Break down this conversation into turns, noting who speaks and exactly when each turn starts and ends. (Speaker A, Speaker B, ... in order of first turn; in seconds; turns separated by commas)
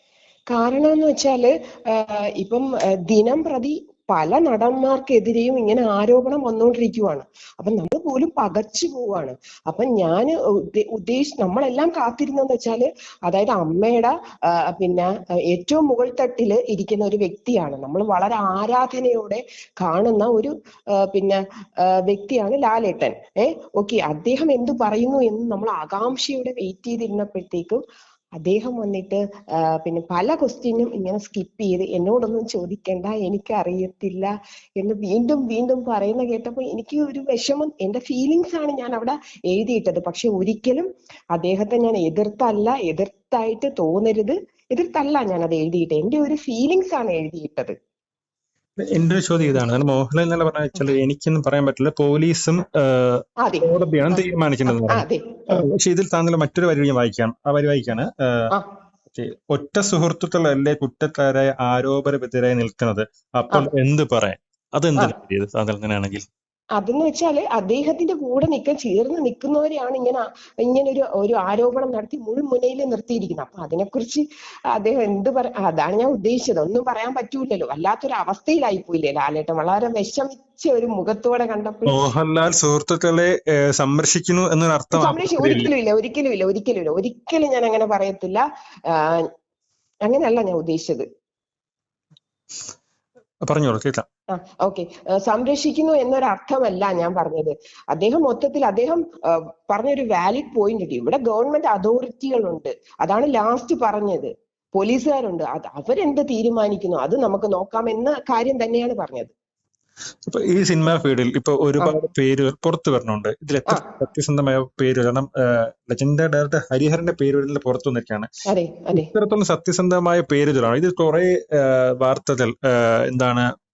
Speaker A: 0.5-27.8, Speaker A: 28.4-47.8, Speaker B: 48.8-58.5, Speaker A: 53.4-55.7, Speaker B: 59.1-66.2, Speaker A: 66.8-82.0, Speaker B: 81.9-85.7, Speaker A: 84.9-89.3, Speaker A: 90.0-91.0, Speaker B: 93.5-94.1, Speaker A: 94.3-109.3, Speaker B: 110.3-118.3, Speaker A: 118.5-119.1, Speaker B: 118.9-123.5